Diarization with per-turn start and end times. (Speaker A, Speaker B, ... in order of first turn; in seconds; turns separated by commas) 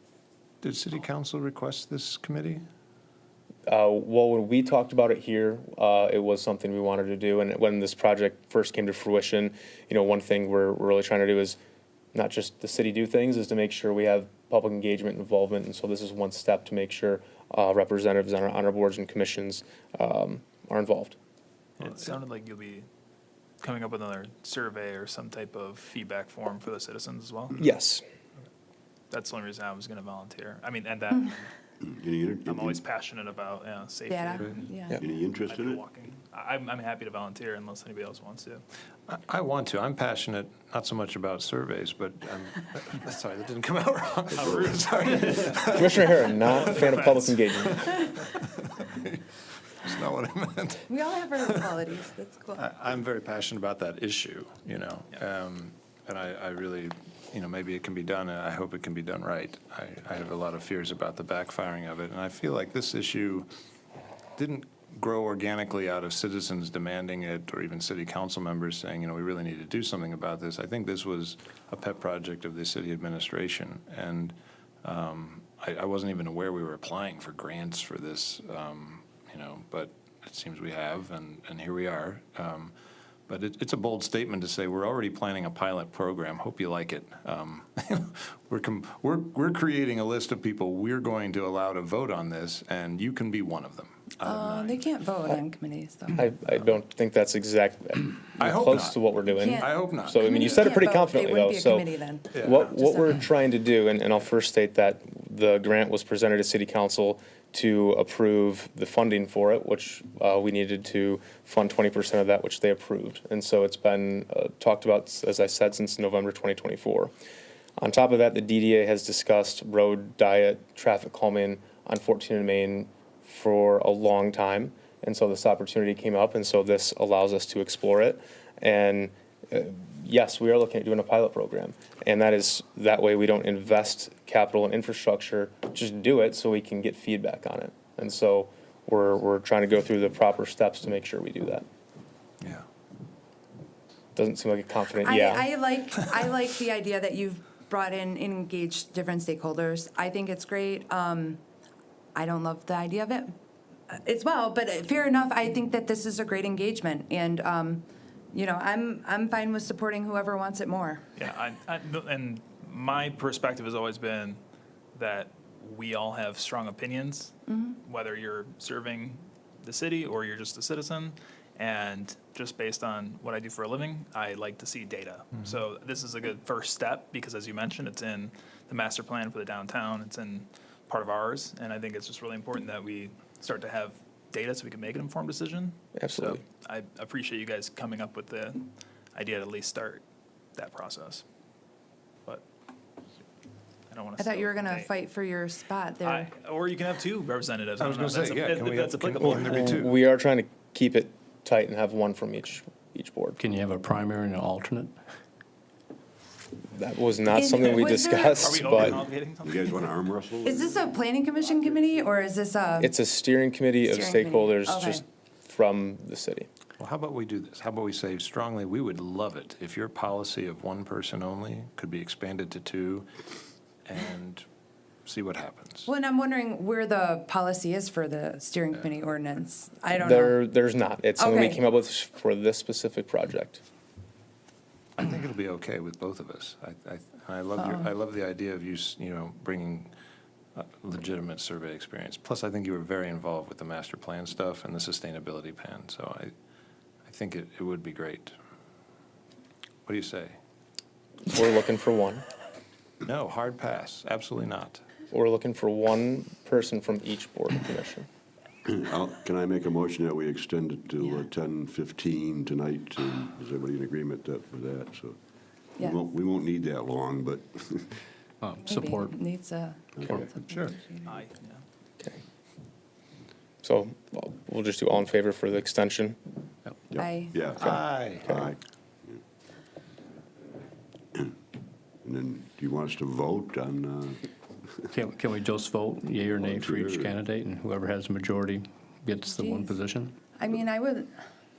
Speaker A: 0.6-2.6, Speaker B: 3.7-11.6, Speaker B: 12.1-21.1, Speaker C: 21.8-22.9, Speaker C: 23.6-27.6, Speaker B: 27.6-28.0, Speaker C: 29.1-31.4, Speaker D: 31.8-32.8, Speaker C: 32.5-38.6, Speaker E: 34.1-35.0, Speaker D: 35.0-35.8, Speaker A: 39.1-47.0, Speaker D: 44.3-45.4, Speaker C: 44.4-47.5, Speaker B: 45.7-48.0, Speaker A: 47.6-49.3, Speaker A: 49.8-51.8, Speaker E: 50.9-52.6, Speaker A: 52.5-63.5, Speaker A: 64.3-82.7, Speaker A: 83.3-94.9, Speaker E: 94.2-96.3, Speaker B: 96.1-117.1, Speaker A: 98.4-100.8, Speaker E: 99.2-103.3, Speaker A: 102.3-102.7, Speaker B: 117.8-141.6, Speaker B: 144.2-145.5, Speaker E: 145.0-151.4, Speaker E: 152.1-153.3, Speaker E: 153.9-161.1, Speaker C: 161.2-164.4, Speaker C: 164.9-190.0, Speaker E: 167.5-167.8, Speaker B: 185.9-186.4, Speaker C: 190.5-191.2, Speaker C: 193.9-194.9, Speaker E: 194.2-196.3, Speaker C: 196.0-199.8, Speaker A: 197.8-199.9, Speaker B: 199.3-203.4, Speaker F: 203.4-204.9, Speaker B: 206.7-209.0, Speaker E: 207.3-208.7, Speaker C: 207.8-209.8, Speaker D: 208.7-212.2, Speaker E: 210.4-212.9, Speaker B: 212.8-216.5, Speaker E: 213.8-215.0, Speaker A: 216.8-223.1, Speaker A: 223.8-224.4, Speaker A: 225.0-225.9, Speaker E: 225.8-230.4, Speaker B: 230.0-233.6, Speaker E: 231.2-231.6, Speaker A: 235.0-239.9, Speaker A: 240.5-246.3, Speaker A: 247.0-248.3, Speaker A: 249.8-250.4, Speaker B: 251.3-252.2, Speaker A: 253.0-254.8, Speaker B: 255.1-258.1, Speaker D: 258.6-265.2, Speaker D: 265.8-268.0, Speaker F: 268.4-269.2, Speaker E: 268.6-271.2, Speaker D: 270.0-270.3, Speaker A: 270.5-270.7, Speaker C: 271.0-271.6, Speaker B: 273.6-276.2, Speaker D: 276.9-279.2, Speaker E: 277.0-277.5, Speaker A: 277.6-278.4, Speaker D: 282.0-284.2, Speaker F: 284.9-290.2, Speaker D: 286.3-287.2, Speaker E: 289.2-289.8, Speaker E: 290.4-291.1